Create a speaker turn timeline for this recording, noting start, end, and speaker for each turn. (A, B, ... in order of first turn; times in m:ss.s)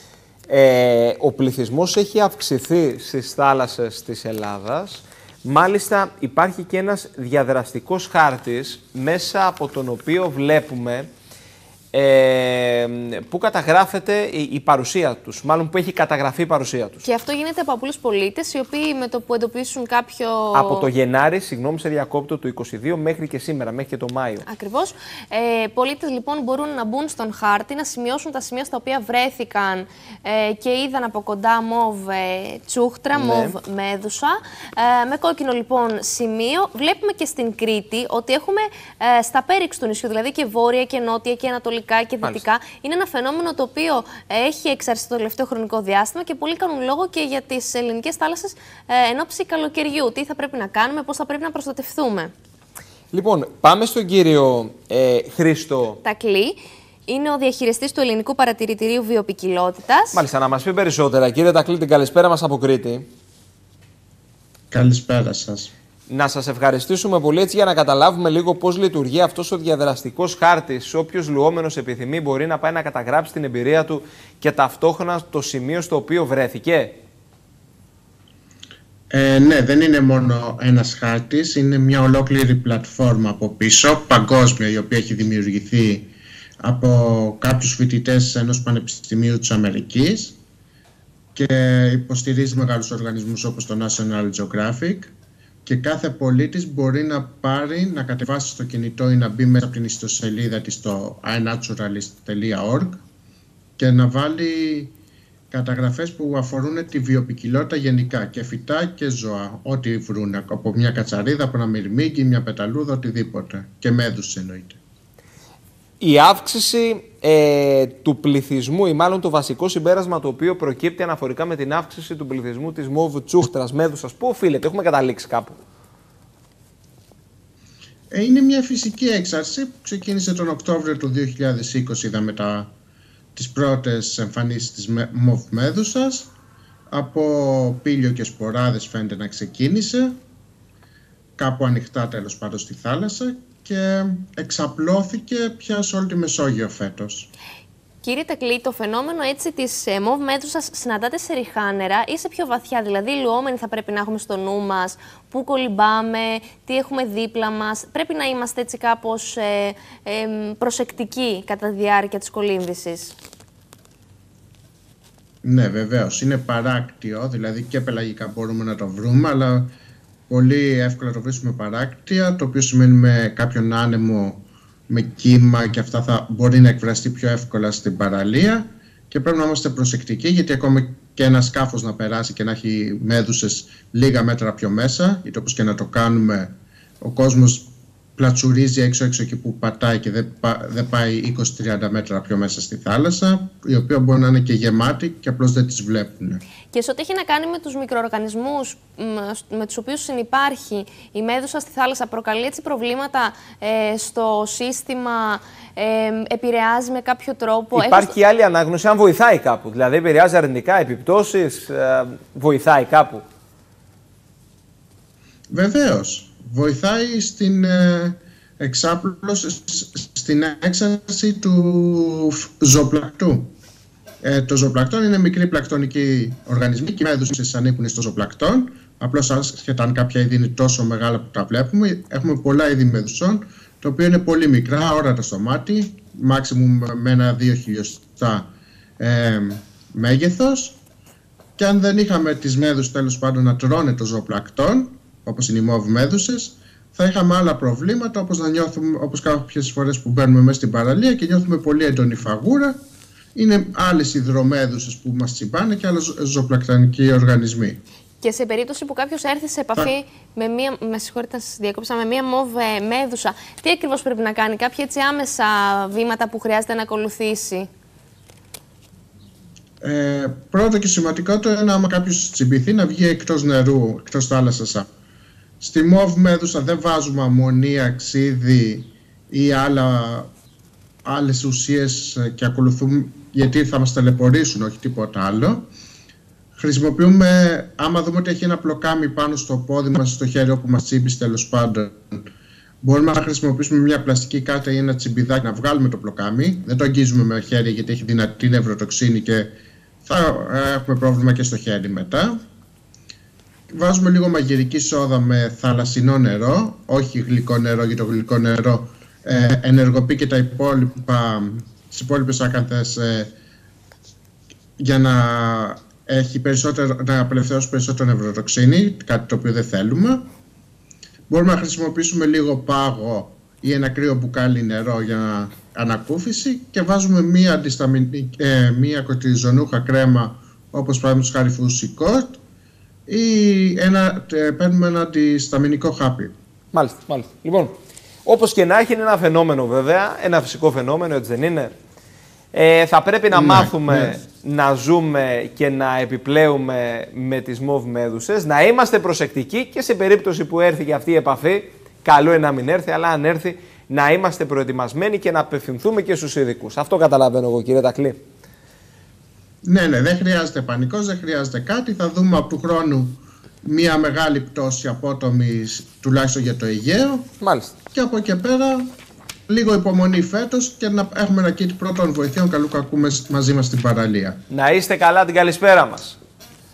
0:00.5-0:11.1 A
0:11.9-0:17.0 A
0:17.0-0:20.9 B
0:20.5-0:24.5 A
0:24.5-0:52.3 B
0:33.1-0:33.6 A
0:53.1-0:56.0 A
0:56.0-1:00.2 B
1:00.1-1:03.1 A
1:04.7-1:05.7 C
1:06.1-1:17.0 A
1:19.1-1:26.1 C
1:26.6-1:30.4 C
1:31.4-1:35.1 C
1:35.7-1:43.0 C
1:43.8-1:44.9 C
1:45.5-1:54.8 C
1:56.0-2:05.6 A
2:08.1-2:12.7 C
2:13.4-2:16.3 C
2:16.9-2:20.2 C
2:21.4-2:27.3 C
2:28.0-2:43.2 B
2:45.4-2:49.7 C
2:50.3-3:16.4 C
3:16.7-3:28.1 B
3:27.7-3:33.2 A
3:35.5-3:43.5 C
3:44.2-4:00.8 C
4:01.6-4:12.8 C
4:13.4-4:17.8 C
4:18.2-4:27.7 B
4:29.8-4:34.9 C
4:35.6-4:40.3 C
4:41.0-4:45.7 C
4:46.6-4:52.3 C
4:52.8-4:59.5 C
5:00.0-5:02.4 C
5:03.7-5:13.3 C
5:14.8-5:20.3 C
5:21.3-5:32.4 C
5:33.1-5:36.3 C
5:36.7-5:41.7 A
5:42.5-5:58.2 A
5:43.3-5:44.2 C
5:59.6-6:07.3 C
6:07.4-6:07.7 A
6:07.9-6:08.9 C
6:09.5-6:14.4 C
6:14.5-6:16.2 A